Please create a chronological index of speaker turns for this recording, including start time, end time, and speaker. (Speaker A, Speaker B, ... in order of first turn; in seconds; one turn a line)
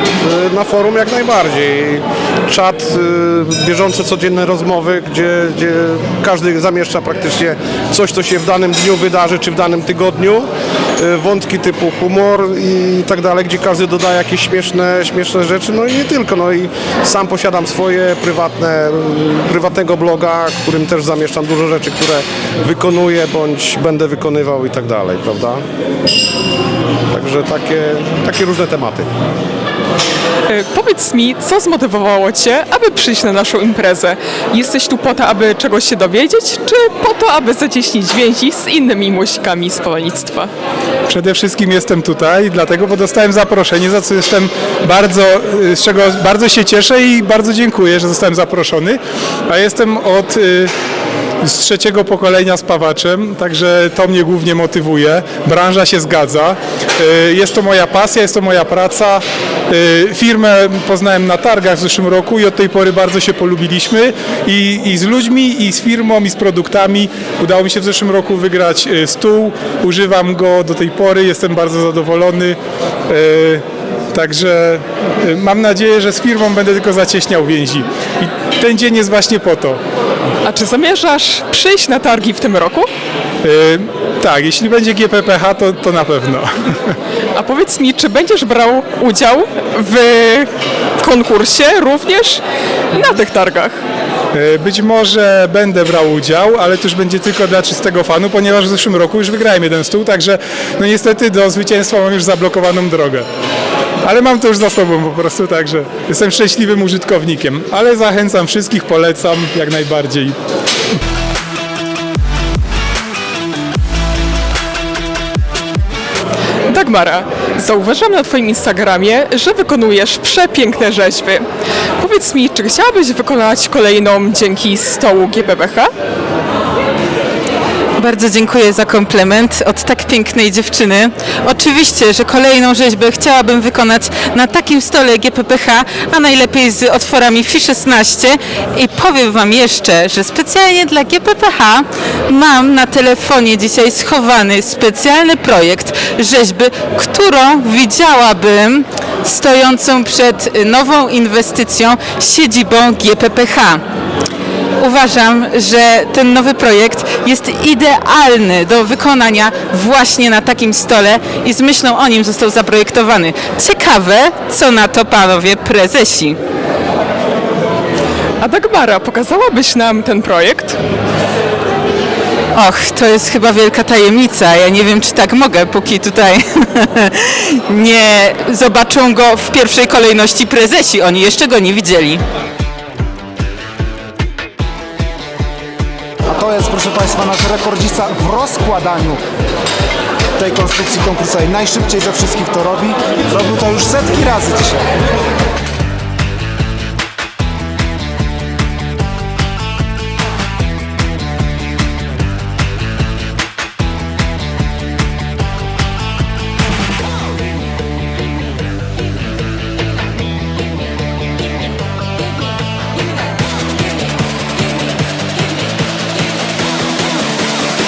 Speaker A: 0.2-25.6
Speaker A: 27.1-29.1
Speaker B: 30.5-40.5
Speaker C: 41.1-50.7
Speaker C: 51.4-79.8
Speaker B: 80.4-82.9
Speaker C: 83.4-86.9
Speaker B: 87.3-92.4
Speaker B: 92.9-93.8
Speaker C: 94.3-103.3
Speaker C: 104.0-110.4
Speaker B: 116.7-121.4
Speaker B: 122.0-125.9
Speaker D: 128.0-153.8
Speaker D: 154.8-166.4
Speaker B: 168.4-170.8
Speaker D: 172.5-182.2
Speaker E: 186.3-189.2
Speaker E: 190.4-194.8